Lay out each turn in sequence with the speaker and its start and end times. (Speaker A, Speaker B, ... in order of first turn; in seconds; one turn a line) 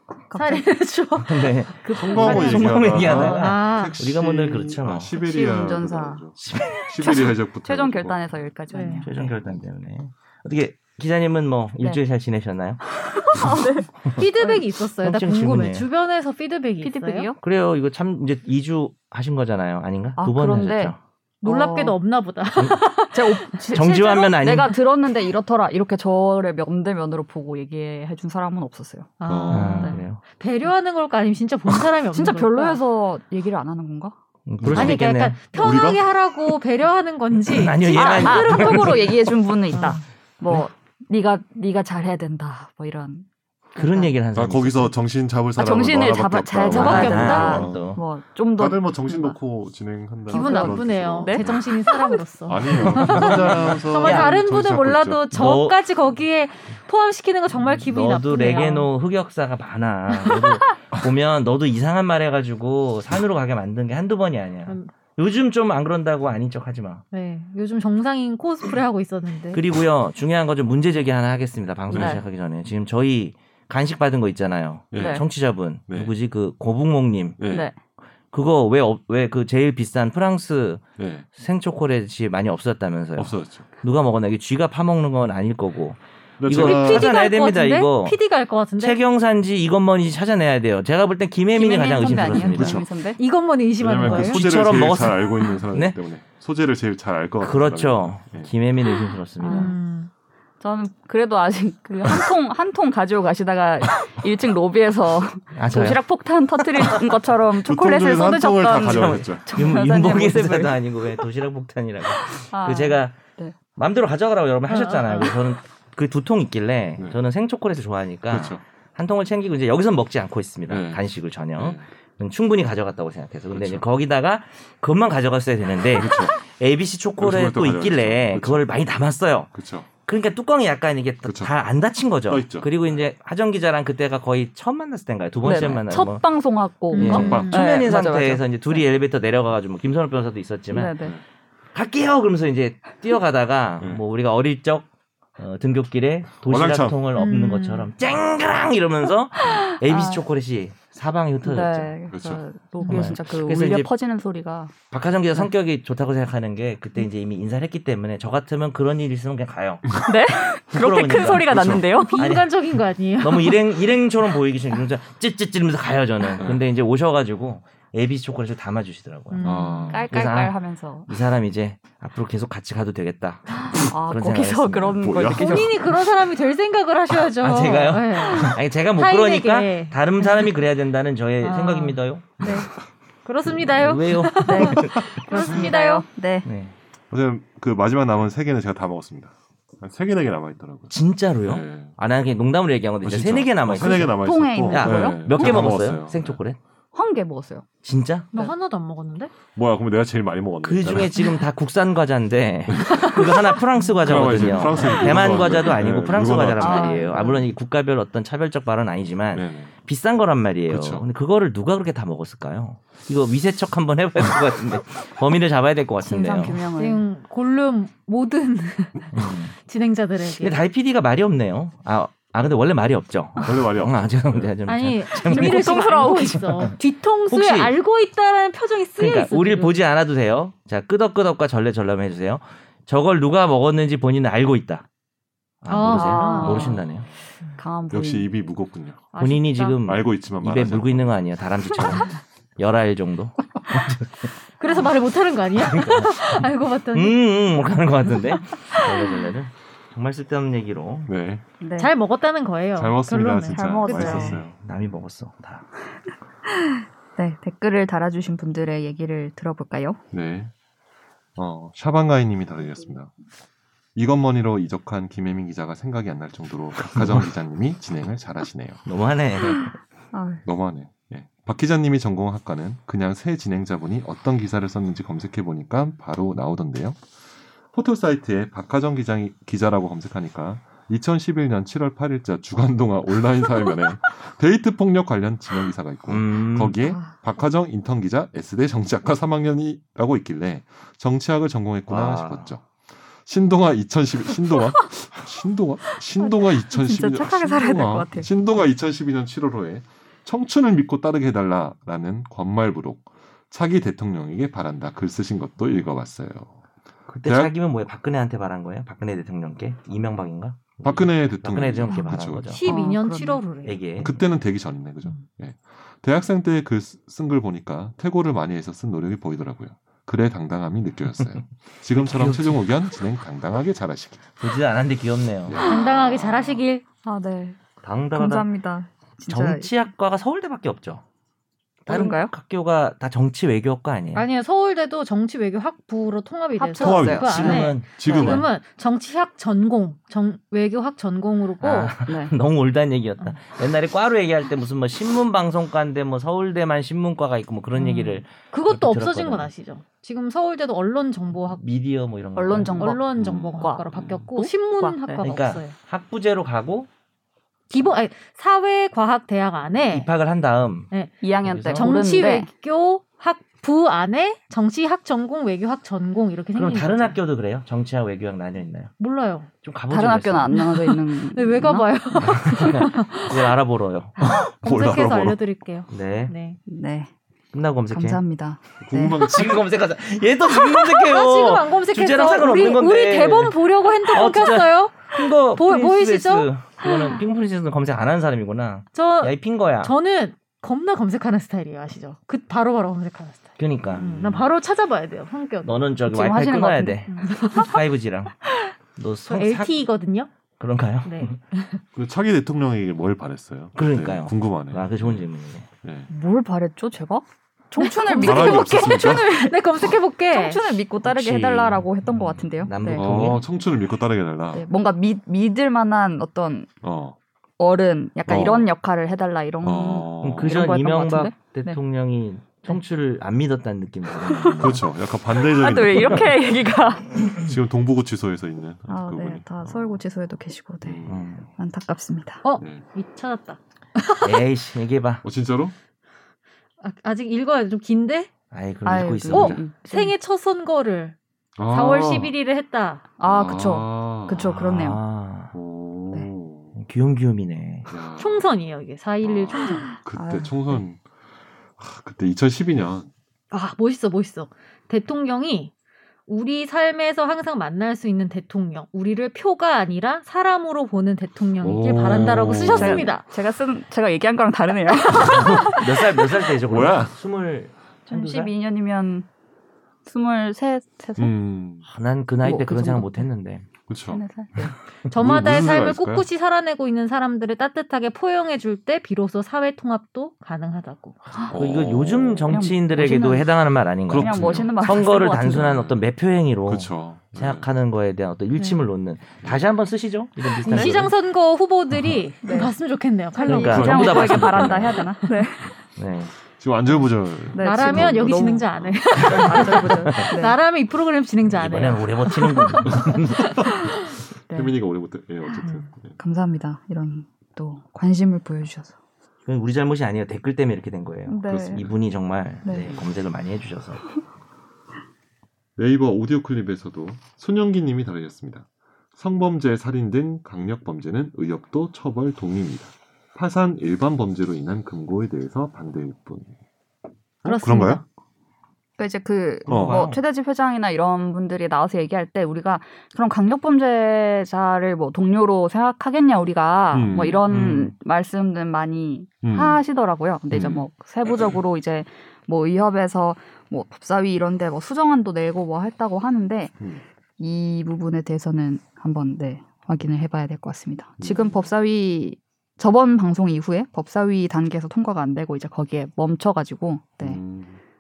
Speaker A: 0.3-0.7
Speaker B: 0.3-4.0
Speaker C: 1.2-5.2
Speaker D: 2.0-8.5
Speaker A: 2.1-3.5
Speaker A: 5.2-6.3
Speaker C: 6.4-6.8
Speaker A: 7.0-9.1
Speaker B: 8.7-9.0
Speaker C: 9.0-12.8
Speaker D: 9.1-9.6
Speaker A: 13.0-14.6
Speaker B: 14.1-17.3
Speaker C: 15.0-15.9
Speaker A: 16.8-17.4
Speaker C: 17.4-21.0
Speaker A: 20.2-22.0
Speaker B: 21.4-24.7
Speaker A: 23.1-30.0
Speaker C: 23.7-24.8
Speaker B: 29.2-32.8
Speaker D: 29.2-29.9
Speaker C: 29.5-30.2
Speaker A: 32.1-34.1
Speaker C: 34.5-35.4
Speaker D: 34.6-35.0
Speaker B: 34.8-39.1
Speaker D: 35.5-36.0
Speaker C: 37.3-39.2
Speaker A: 37.9-43.3
Speaker B: 39.7-40.0
Speaker C: 43.8-44.9
Speaker A: 43.8-44.1
Speaker D: 44.4-47.9
Speaker A: 45.5-49.4
Speaker B: 46.6-47.6
Speaker C: 46.7-48.0
Speaker D: 48.6-51.8
Speaker A: 50.3-51.5
Speaker B: 50.3-58.9
Speaker D: 52.5-55.6
Speaker C: 53.0-54.4
Speaker C: 55.3-55.8
Speaker C: 57.9-67.0
Speaker B: 60.1-60.5
Speaker B: 67.1-69.6
Speaker C: 69.5-77.5
Speaker D: 71.9-72.2
Speaker A: 71.9-72.2
Speaker D: 74.9-75.4
Speaker A: 75.0-75.2
Speaker D: 75.9-76.1
Speaker D: 77.4-77.7
Speaker A: 77.5-77.8
Speaker C: 78.3-80.8
Speaker D: 81.0-81.3
Speaker C: 81.4-88.2
Speaker D: 83.2-83.7
Speaker D: 86.4-87.1
Speaker B: 86.6-89.0
Speaker C: 88.8-92.8
Speaker A: 91.6-93.2
Speaker B: 91.6-94.6
Speaker D: 92.6-92.9
Speaker D: 93.8-98.5
Speaker C: 94.0-96.0
Speaker C: 97.4-99.7
Speaker A: 99.4-99.8
Speaker B: 99.5-100.1
Speaker A: 100.6-111.0
Speaker C: 105.5-106.0
Speaker D: 107.6-109.5
Speaker C: 108.9-113.2
Speaker A: 112.2-113.5
Speaker C: 113.8-136.2
Speaker B: 114.7-115.3
Speaker D: 118.3-118.6
Speaker D: 120.7-121.0
Speaker D: 121.6-121.8
Speaker D: 123.5-123.8
Speaker D: 126.0-126.3
Speaker D: 127.2-128.7
Speaker D: 129.5-129.9
Speaker D: 131.2-131.5
Speaker D: 132.3-133.0
Speaker A: 135.4-138.8
Speaker B: 136.9-137.7
Speaker C: 137.0-141.0
Speaker D: 137.1-137.9
Speaker A: 140.7-141.1
Speaker C: 141.7-144.9
Speaker C: 145.4-151.9
Speaker D: 146.4-147.0
Speaker B: 147.2-147.9
Speaker A: 149.8-150.2
Speaker A: 151.4-154.7
Speaker D: 152.1-152.4
Speaker C: 152.8-153.9
Speaker C: 154.9-160.1
Speaker A: 160.0-162.2
Speaker C: 160.7-162.5
Speaker B: 161.9-163.7
Speaker C: 163.2-169.5
Speaker B: 169.3-170.0
Speaker D: 169.4-170.1
Speaker A: 169.8-171.1
Speaker C: 170.1-170.6
Speaker C: 171.1-175.2
Speaker A: 173.6-175.9
Speaker D: 175.0-175.9
Speaker B: 175.3-180.5
Speaker C: 177.4-182.6
Speaker B: 181.4-186.1
Speaker C: 183.5-185.3
Speaker A: 184.4-186.5
Speaker C: 186.4-186.7
Speaker D: 187.1-190.9
Speaker C: 190.9-196.6
Speaker D: 191.5-191.9
Speaker D: 193.0-196.4
Speaker A: 193.8-195.8
Speaker A: 196.9-197.7
Speaker C: 197.8-198.3
Speaker B: 198.3-199.3
Speaker D: 199.5-201.3
Speaker C: 200.6-216.6
Speaker D: 202.7-203.3
Speaker B: 203.8-205.1
Speaker D: 204.0-207.4
Speaker A: 204.8-205.6
Speaker A: 206.4-207.5
Speaker D: 209.3-209.7
Speaker D: 210.7-211.1
Speaker A: 216.0-217.1
Speaker B: 216.8-220.6
Speaker C: 219.1-219.5
Speaker C: 220.3-226.8
Speaker D: 223.4-224.6
Speaker B: 224.7-229.8
Speaker A: 225.2-226.7
Speaker C: 227.3-227.8
Speaker C: 229.0-234.8
Speaker C: 235.6-237.1
Speaker B: 235.7-236.7
Speaker A: 235.9-236.8
Speaker D: 236.5-237.1
Speaker A: 237.6-238.3
Speaker D: 237.9-239.1
Speaker B: 239.1-239.8
Speaker C: 239.2-244.3
Speaker D: 239.8-241.4
Speaker B: 244.6-247.2
Speaker C: 245.6-251.1
Speaker D: 251.1-251.4
Speaker A: 251.6-251.9
Speaker B: 251.8-254.3
Speaker D: 252.8-254.5
Speaker A: 253.5-254.4
Speaker C: 254.0-255.7
Speaker A: 256.5-260.0
Speaker D: 260.1-260.5
Speaker D: 261.4-263.1
Speaker D: 263.9-268.8
Speaker C: 268.9-269.8
Speaker A: 270.1-270.4
Speaker D: 270.5-277.0
Speaker D: 277.7-292.7
Speaker C: 286.1-286.8
Speaker A: 286.8-287.1
Speaker C: 291.9-292.5
Speaker D: 293.2-306.6
Speaker A: 296.2-298.3
Speaker C: 307.1-312.6
Speaker D: 307.2-307.5
Speaker D: 310.8-312.6
Speaker B: 312.5-313.8
Speaker A: 312.6-313.4
Speaker C: 313.6-314.2
Speaker D: 314.0-324.2
Speaker C: 322.1-322.4
Speaker A: 322.1-322.6
Speaker C: 324.4-326.6
Speaker D: 325.5-326.4
Speaker B: 325.6-326.8
Speaker A: 327.1-327.6
Speaker C: 327.8-328.5
Speaker A: 328.1-329.7
Speaker C: 329.3-331.0
Speaker C: 331.9-334.3
Speaker A: 331.9-332.3
Speaker B: 334.1-341.9
Speaker A: 336.6-337.7
Speaker D: 336.8-338.5
Speaker C: 337.2-338.5
Speaker C: 341.6-349.5
Speaker A: 342.1-342.3
Speaker B: 347.8-351.6
Speaker C: 351.5-353.0
Speaker A: 352.4-353.1
Speaker B: 352.8-355.7
Speaker D: 353.2-354.3
Speaker A: 353.6-353.9
Speaker A: 354.4-355.2
Speaker C: 355.2-356.9
Speaker B: 357.7-360.1
Speaker C: 359.8-360.9
Speaker A: 361.2-362.5
Speaker C: 361.4-361.9
Speaker B: 361.7-367.2
Speaker C: 366.6-368.9
Speaker B: 369.0-369.5
Speaker C: 369.6-370.6
Speaker A: 369.9-371.9
Speaker B: 370.5-373.4
Speaker C: 372.2-374.2
Speaker D: 374.2-375.4
Speaker B: 374.3-376.6
Speaker C: 375.9-376.3
Speaker A: 376.7-377.1
Speaker C: 377.5-378.2
Speaker A: 377.9-379.2
Speaker D: 378.8-379.6
Speaker C: 379.2-389.9
Speaker B: 380.6-386.5
Speaker B: 388.9-395.8
Speaker C: 393.6-394.5
Speaker C: 395.6-398.4
Speaker A: 396.1-397.8
Speaker B: 397.1-397.8
Speaker C: 399.0-399.7
Speaker B: 399.3-400.3
Speaker C: 400.6-401.4
Speaker B: 401.1-401.8
Speaker D: 401.9-405.3
Speaker C: 403.8-405.7
Speaker D: 405.8-406.1
Speaker A: 406.1-413.4
Speaker B: 407.8-410.8
Speaker D: 408.2-409.3
Speaker C: 411.0-411.8
Speaker C: 412.6-413.4
Speaker D: 412.9-414.6
Speaker A: 414.5-416.7
Speaker D: 416.8-417.2
Speaker A: 417.6-421.8
Speaker D: 418.3-418.7
Speaker D: 419.6-420.8
Speaker C: 420.2-424.8
Speaker A: 424.2-427.4
Speaker D: 424.6-426.4
Speaker D: 427.3-430.0
Speaker A: 428.9-432.4
Speaker D: 430.8-431.3
Speaker C: 431.1-431.5
Speaker B: 432.4-434.4
Speaker C: 434.2-435.2
Speaker D: 435.2-435.7
Speaker B: 436.8-438.3
Speaker C: 438.5-439.6
Speaker A: 438.9-440.1
Speaker B: 439.3-441.2
Speaker D: 441.6-442.3
Speaker B: 441.7-443.0
Speaker A: 443.2-445.0
Speaker D: 443.2-444.6
Speaker C: 444.5-445.5
Speaker D: 445.5-446.8
Speaker C: 446.8-447.9
Speaker D: 447.9-448.5
Speaker B: 448.2-449.9
Speaker D: 449.2-451.0
Speaker A: 450.1-450.8
Speaker D: 451.8-453.1
Speaker B: 453.5-455.7
Speaker B: 456.3-463.3
Speaker D: 461.6-463.2
Speaker A: 462.6-465.9
Speaker D: 465.2-465.9
Speaker C: 465.3-468.5
Speaker D: 466.6-467.1
Speaker A: 468.1-469.3
Speaker A: 470.1-471.3
Speaker D: 471.2-471.9
Speaker C: 471.9-473.7
Speaker A: 472.4-473.3
Speaker D: 473.9-474.2
Speaker A: 474.1-474.7
Speaker B: 475.1-481.4
Speaker D: 475.1-476.2
Speaker D: 481.4-482.6
Speaker C: 481.5-491.1
Speaker A: 482.5-483.5
Speaker A: 484.1-485.8
Speaker D: 484.1-486.0
Speaker D: 486.7-487.7
Speaker A: 490.6-491.0
Speaker B: 490.6-494.4
Speaker A: 492.4-492.8
Speaker A: 493.3-495.7
Speaker C: 493.4-495.1
Speaker D: 493.7-495.0
Speaker B: 495.2-495.5
Speaker C: 496.0-496.3
Speaker D: 496.6-499.3
Speaker A: 497.5-500.6
Speaker B: 497.6-503.1
Speaker C: 499.2-500.3
Speaker C: 501.5-503.6
Speaker D: 502.9-503.9
Speaker D: 504.5-506.2
Speaker B: 505.6-505.9
Speaker A: 506.2-508.9
Speaker C: 509.5-514.1
Speaker A: 511.3-511.8
Speaker D: 511.5-512.0
Speaker A: 512.6-512.9
Speaker D: 512.7-513.0
Speaker D: 515.8-526.5
Speaker D: 527.4-528.0
Speaker B: 527.5-528.0
Speaker A: 529.0-546.8
Speaker C: 529.7-530.2
Speaker D: 529.7-530.2
Speaker D: 536.9-537.9
Speaker D: 539.4-539.8
Speaker D: 540.5-540.8
Speaker A: 547.4-557.4
Speaker D: 551.2-551.7
Speaker D: 557.2-557.8